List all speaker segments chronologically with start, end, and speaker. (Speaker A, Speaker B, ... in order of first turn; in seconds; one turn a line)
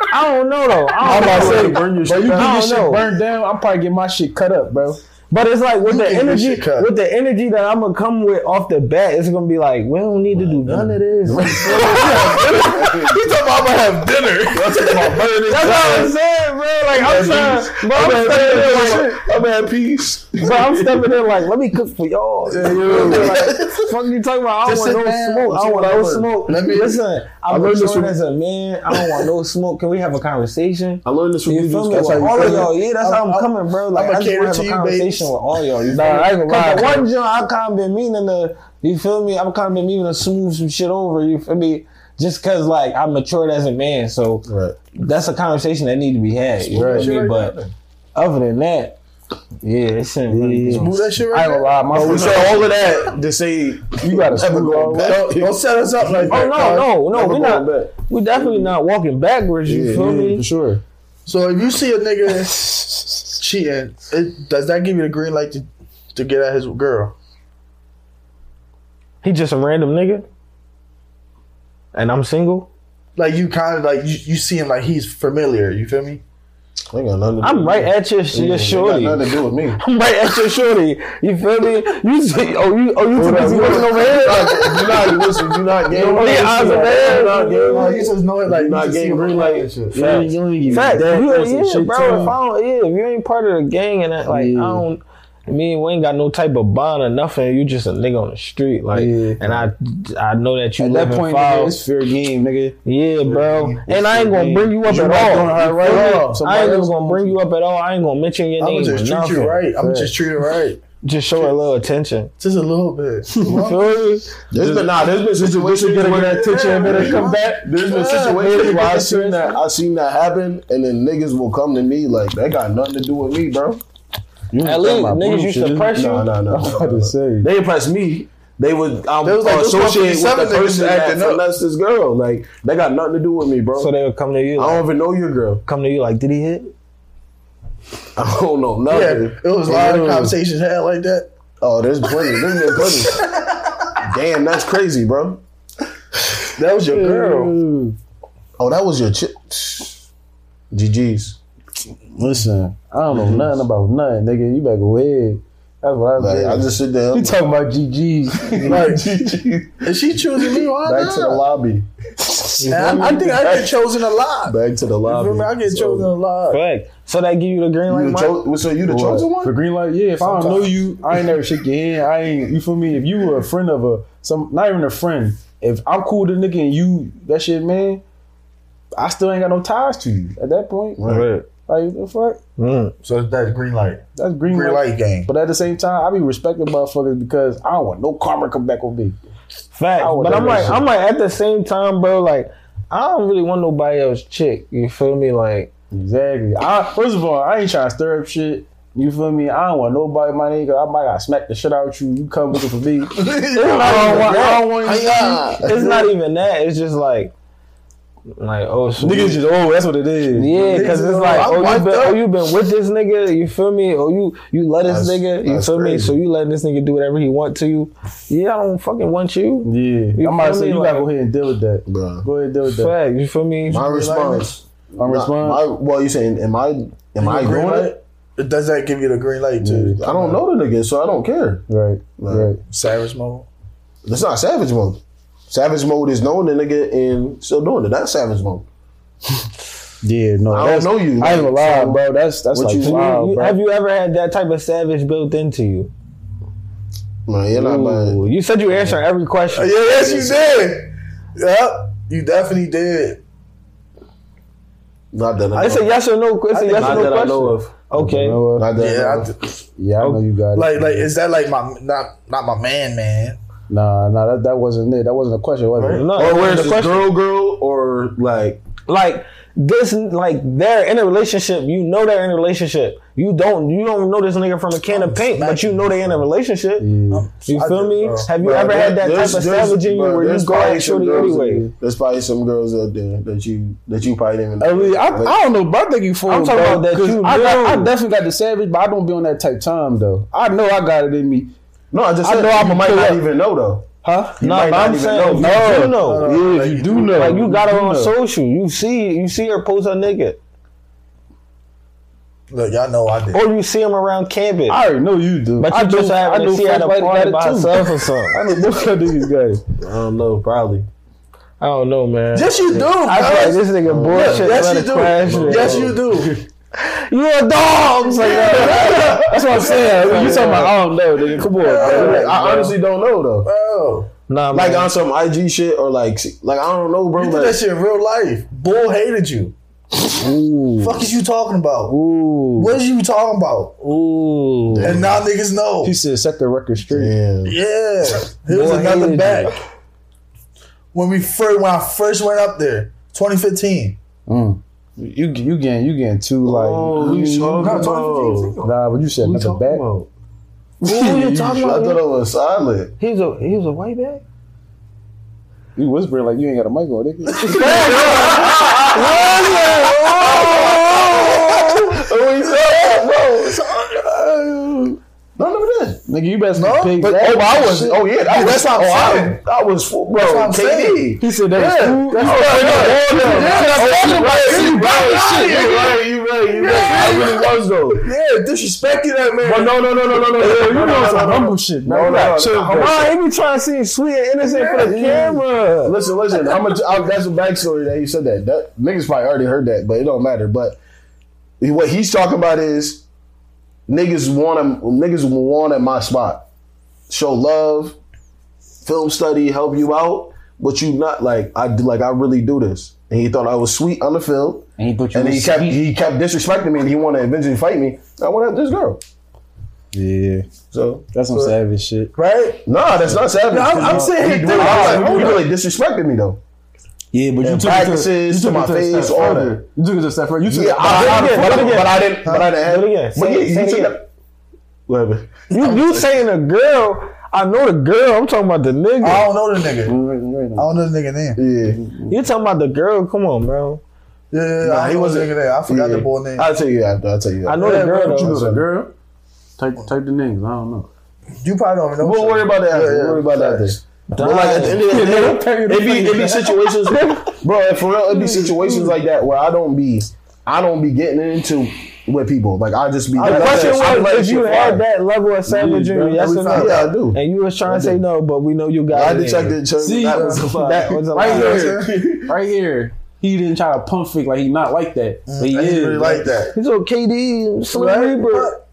Speaker A: 0.1-3.1
Speaker B: 1.0-5.0
Speaker C: 1.0-2.5
Speaker A: 5.3-12.5
Speaker D: 5.9-6.9
Speaker C: 10.4-13.2
Speaker D: 11.6-15.3
Speaker C: 14.5-16.1
Speaker A: 15.5-19.2
Speaker D: 17.0-17.6
Speaker C: 17.0-21.1
Speaker B: 18.5-19.2
Speaker A: 20.4-47.5
Speaker B: 22.5-23.3
Speaker C: 22.6-23.9
Speaker D: 22.7-23.4
Speaker D: 24.6-25.6
Speaker C: 25.5-26.3
Speaker D: 26.5-27.0
Speaker C: 27.5-28.1
Speaker C: 31.0-32.5
Speaker B: 31.9-32.7
Speaker D: 32.4-35.3
Speaker B: 35.9-37.1
Speaker C: 44.5-44.8
Speaker B: 46.7-47.1
Speaker D: 46.9-47.7
Speaker A: 48.1-49.0
Speaker A: 49.6-50.9
Speaker B: 50.3-52.7
Speaker D: 50.7-52.6
Speaker C: 51.9-58.7
Speaker B: 54.0-55.2
Speaker D: 55.0-56.9
Speaker A: 56.3-60.4
Speaker C: 59.7-60.1
Speaker B: 59.9-60.8
Speaker D: 61.3-67.2
Speaker B: 62.7-63.0
Speaker A: 69.2-70.3
Speaker A: 71.9-72.7
Speaker D: 73.2-76.2
Speaker C: 76.9-79.8
Speaker A: 77.4-85.1
Speaker C: 83.2-90.3
Speaker B: 83.5-83.9
Speaker B: 85.9-87.1
Speaker D: 86.0-90.3
Speaker A: 86.1-88.0
Speaker B: 89.9-92.4
Speaker A: 90.7-101.8
Speaker B: 94.3-94.8
Speaker B: 98.9-99.7
Speaker B: 100.8-102.8
Speaker A: 102.8-109.6
Speaker D: 103.3-103.8
Speaker B: 103.8-107.4
Speaker D: 108.6-110.8
Speaker B: 109.8-110.2
Speaker A: 111.0-112.3
Speaker D: 112.4-114.0
Speaker A: 113.4-114.3
Speaker C: 114.5-123.8
Speaker B: 114.5-119.5
Speaker D: 116.5-118.6
Speaker B: 124.5-127.5
Speaker A: 124.6-126.3
Speaker C: 125.9-133.9
Speaker D: 129.2-131.4
Speaker A: 133.8-134.9
Speaker C: 134.6-135.6
Speaker A: 135.7-136.7
Speaker C: 138.2-140.3
Speaker D: 138.9-141.3
Speaker C: 141.6-143.2
Speaker D: 142.2-143.7
Speaker C: 144.0-145.4
Speaker D: 146.6-147.6
Speaker B: 146.9-147.9
Speaker C: 148.6-150.0
Speaker C: 150.7-151.4
Speaker B: 152.2-159.1
Speaker C: 153.1-153.6
Speaker C: 156.2-157.4
Speaker C: 158.5-161.9
Speaker D: 158.7-159.1
Speaker D: 159.8-161.4
Speaker B: 162.2-163.0
Speaker A: 162.6-163.2
Speaker D: 162.7-166.6
Speaker C: 162.7-163.8
Speaker C: 164.4-166.1
Speaker A: 166.5-168.4
Speaker C: 167.9-169.5
Speaker B: 168.9-178.0
Speaker D: 170.2-170.7
Speaker B: 179.0-181.0
Speaker C: 181.0-181.3
Speaker A: 181.0-181.5
Speaker B: 181.7-182.4
Speaker A: 182.6-182.9
Speaker D: 183.0-185.3
Speaker B: 184.2-189.2
Speaker A: 189.7-195.7
Speaker B: 190.0-190.9
Speaker B: 195.9-205.6
Speaker D: 203.2-204.6
Speaker A: 203.6-204.7
Speaker C: 203.8-206.1
Speaker A: 205.6-207.3
Speaker A: 208.4-209.4
Speaker B: 209.0-211.5
Speaker A: 210.3-221.1
Speaker D: 210.7-212.2
Speaker C: 214.8-216.2
Speaker B: 219.7-222.9
Speaker C: 221.9-222.3
Speaker A: 222.7-223.9
Speaker C: 223.7-227.9
Speaker D: 223.7-224.6
Speaker B: 225.0-225.7
Speaker D: 227.2-230.4
Speaker B: 229.6-230.0
Speaker C: 230.0-231.7
Speaker B: 231.7-232.6
Speaker C: 232.2-232.5
Speaker D: 232.7-233.5
Speaker C: 234.1-238.7
Speaker B: 240.0-243.6
Speaker C: 240.5-243.0
Speaker A: 242.8-245.9
Speaker C: 247.3-248.2
Speaker A: 247.5-249.8
Speaker D: 249.5-253.2
Speaker C: 250.0-250.4
Speaker C: 255.1-255.9
Speaker A: 255.6-258.4
Speaker D: 256.5-257.1
Speaker C: 256.8-257.7
Speaker B: 257.9-258.7
Speaker C: 258.6-259.3
Speaker D: 258.8-259.6
Speaker B: 259.8-261.1
Speaker D: 260.5-263.4
Speaker B: 263.7-266.1
Speaker D: 265.8-266.1
Speaker A: 265.9-267.1
Speaker C: 266.1-268.6
Speaker A: 268.9-276.9
Speaker D: 274.9-276.2
Speaker B: 276.8-277.3
Speaker D: 277.1-278.3
Speaker A: 277.4-281.7
Speaker C: 278.4-285.4
Speaker B: 281.1-281.7
Speaker B: 284.6-291.5
Speaker A: 286.3-287.9
Speaker C: 291.9-297.0
Speaker B: 292.2-293.2
Speaker B: 294.0-294.4
Speaker A: 294.4-296.3
Speaker B: 295.3-298.1
Speaker D: 295.8-297.5
Speaker A: 297.1-300.4
Speaker D: 302.5-303.4
Speaker A: 303.3-304.8
Speaker B: 304.7-309.6
Speaker A: 305.6-308.4
Speaker C: 309.8-310.9
Speaker A: 311.6-315.9
Speaker D: 312.3-316.4
Speaker C: 313.8-316.4
Speaker A: 316.8-320.8
Speaker D: 318.2-320.6
Speaker C: 318.3-319.7
Speaker B: 319.3-322.7
Speaker D: 321.6-322.6
Speaker C: 321.6-323.5
Speaker D: 323.4-324.1
Speaker A: 324.3-324.9
Speaker C: 324.5-327.6
Speaker D: 327.2-329.5
Speaker A: 330.1-331.1
Speaker D: 330.8-331.9
Speaker A: 331.9-332.8
Speaker D: 332.6-333.8
Speaker A: 333.8-335.0
Speaker C: 334.7-335.2
Speaker D: 334.8-336.0
Speaker B: 335.8-337.1
Speaker C: 336.9-337.6
Speaker D: 337.5-339.6
Speaker A: 338.5-339.5
Speaker D: 340.9-344.0
Speaker B: 344.3-347.8
Speaker C: 346.4-348.6
Speaker D: 347.6-348.8
Speaker B: 348.6-349.9
Speaker C: 349.2-350.1
Speaker A: 350.8-352.0
Speaker B: 350.8-351.4
Speaker C: 351.1-352.9
Speaker A: 353.0-354.2
Speaker B: 355.8-358.1
Speaker D: 357.5-365.0
Speaker A: 357.5-361.4
Speaker C: 358.0-359.2
Speaker C: 360.0-363.5
Speaker C: 365.4-366.0
Speaker B: 366.1-367.8
Speaker D: 366.6-369.4
Speaker C: 367.2-371.2
Speaker D: 370.1-379.8
Speaker B: 371.2-375.7
Speaker C: 372.1-378.1
Speaker A: 372.4-374.2
Speaker C: 379.4-383.1
Speaker B: 380.1-383.1
Speaker A: 382.4-385.9
Speaker D: 384.4-385.3
Speaker C: 385.8-390.8
Speaker C: 391.6-393.1
Speaker C: 393.9-396.5
Speaker C: 397.1-398.0
Speaker C: 398.8-409.0
Speaker B: 404.8-405.8
Speaker B: 409.9-410.5
Speaker C: 410.7-411.5
Speaker B: 411.1-412.1
Speaker D: 412.1-412.6
Speaker C: 412.7-416.4
Speaker B: 413.1-415.5
Speaker D: 413.5-415.5
Speaker B: 417.1-422.0
Speaker C: 417.4-419.6
Speaker C: 420.5-424.1
Speaker A: 420.8-424.0
Speaker D: 422.2-422.5
Speaker C: 424.9-425.5
Speaker A: 425.5-429.3
Speaker D: 425.6-426.0
Speaker D: 429.0-430.0
Speaker B: 429.9-430.7
Speaker D: 430.6-431.4
Speaker C: 431.4-431.8
Speaker B: 431.7-432.2
Speaker A: 432.1-433.8
Speaker D: 434.3-436.5
Speaker C: 434.6-438.7
Speaker A: 437.4-438.4
Speaker D: 437.6-438.1
Speaker B: 437.6-438.9
Speaker B: 439.6-440.9
Speaker D: 441.4-443.8
Speaker C: 442.0-454.8
Speaker A: 444.1-444.9
Speaker B: 444.6-446.7
Speaker A: 446.9-447.3
Speaker B: 448.3-448.9
Speaker B: 453.2-454.0
Speaker D: 453.2-453.7
Speaker A: 453.2-459.6
Speaker B: 455.5-456.2
Speaker D: 456.0-456.9
Speaker C: 456.5-458.0
Speaker C: 458.9-462.3
Speaker B: 459.8-460.6
Speaker D: 460.0-460.4
Speaker A: 460.5-461.8
Speaker B: 461.1-466.3
Speaker D: 461.2-461.9
Speaker D: 465.3-466.6
Speaker A: 466.5-468.6
Speaker D: 467.7-468.6